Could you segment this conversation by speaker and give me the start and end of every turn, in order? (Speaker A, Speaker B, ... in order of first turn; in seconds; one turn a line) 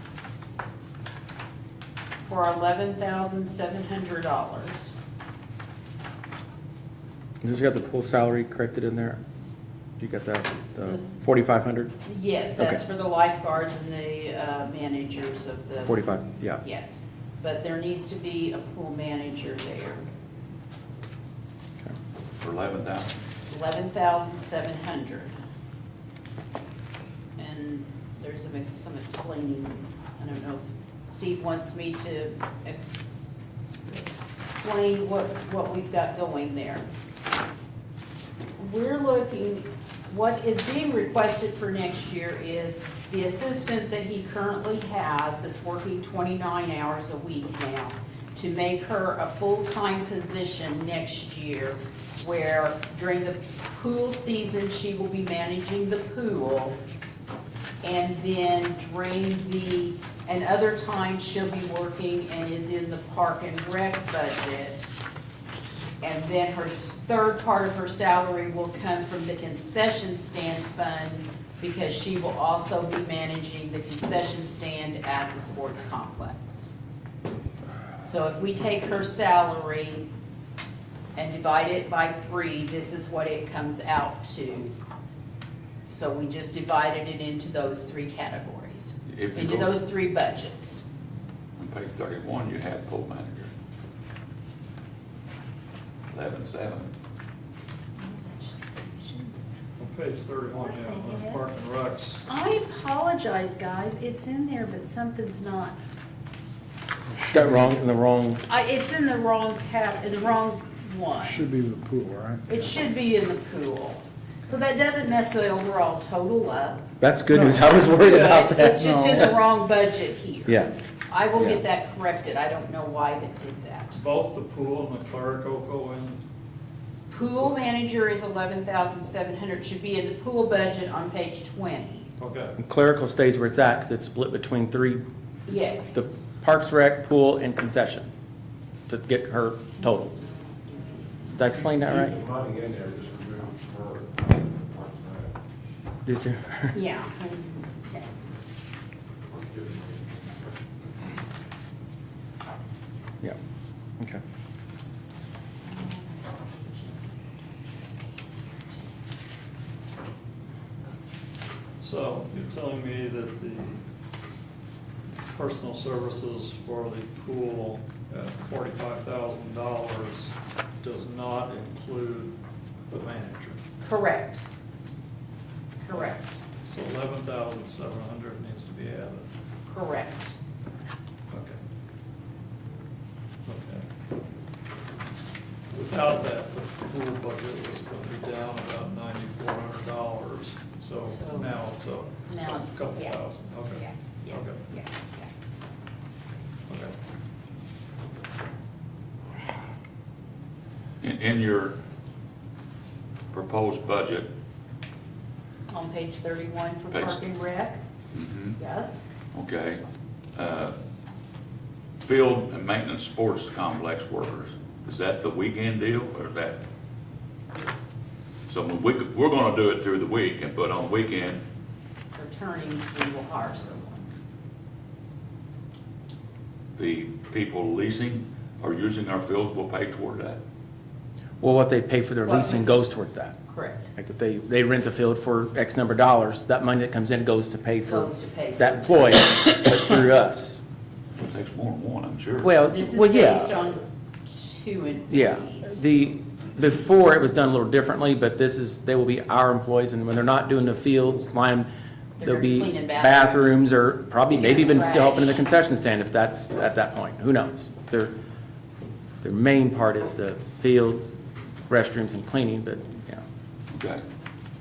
Speaker A: 2.2-4.9
Speaker B: 7.4-9.2
Speaker B: 10.0-11.9
Speaker A: 10.9-11.1
Speaker A: 12.1-16.0
Speaker B: 15.9-16.6
Speaker A: 16.6-20.1
Speaker C: 22.4-23.1
Speaker A: 23.5-25.3
Speaker A: 27.4-36.9
Speaker A: 38.6-56.8
Speaker A: 57.8-64.9
Speaker A: 66.0-76.7
Speaker A: 78.0-80.1
Speaker A: 81.2-84.7
Speaker A: 85.9-90.8
Speaker C: 89.1-89.8
Speaker C: 91.6-93.5
Speaker C: 96.1-96.9
Speaker A: 98.0-99.4
Speaker D: 99.8-102.2
Speaker A: 100.5-101.4
Speaker A: 102.3-105.8
Speaker E: 107.1-107.8
Speaker B: 107.3-108.4
Speaker A: 108.5-111.5
Speaker E: 111.2-112.5
Speaker A: 112.5-116.9
Speaker B: 117.0-119.3
Speaker E: 117.3-117.6
Speaker A: 117.7-124.0
Speaker E: 118.8-119.2
Speaker B: 120.5-120.7
Speaker B: 121.4-121.6
Speaker D: 123.9-126.2
Speaker A: 127.1-132.1
Speaker D: 132.2-132.6
Speaker B: 132.6-138.1
Speaker A: 135.5-136.1
Speaker B: 138.9-140.1
Speaker A: 139.8-141.7
Speaker B: 141.4-142.2
Speaker F: 141.8-145.3
Speaker B: 146.1-146.8
Speaker A: 146.7-148.1
Speaker F: 149.3-150.1
Speaker A: 155.7-157.3
Speaker D: 161.8-163.8
Speaker D: 165.3-172.4
Speaker D: 172.9-173.6
Speaker A: 173.8-174.5
Speaker A: 175.8-176.4
Speaker D: 176.7-179.3
Speaker A: 179.7-180.3
Speaker D: 181.3-181.6
Speaker D: 183.4-183.9
Speaker D: 185.7-194.6
Speaker A: 191.2-191.6
Speaker A: 192.3-193.2
Speaker A: 193.7-195.3
Speaker D: 196.7-196.9
Speaker C: 201.0-201.8
Speaker C: 203.3-204.3
Speaker A: 205.7-207.8
Speaker C: 206.9-207.2
Speaker C: 208.1-208.6
Speaker A: 208.6-209.0
Speaker C: 209.3-209.8
Speaker C: 210.4-210.8
Speaker C: 212.0-216.6
Speaker C: 218.5-221.4
Speaker A: 222.1-224.1
Speaker C: 226.8-230.4
Speaker B: 231.4-233.4
Speaker A: 232.2-232.8
Speaker A: 233.5-233.9
Speaker B: 234.0-240.6
Speaker A: 237.9-239.7
Speaker C: 241.2-242.7
Speaker B: 242.4-243.6
Speaker A: 242.7-245.9
Speaker B: 245.1-251.7
Speaker A: 252.2-255.5
Speaker B: 252.2-258.1
Speaker B: 259.2-261.2
Speaker B: 261.7-263.2
Speaker C: 263.7-264.0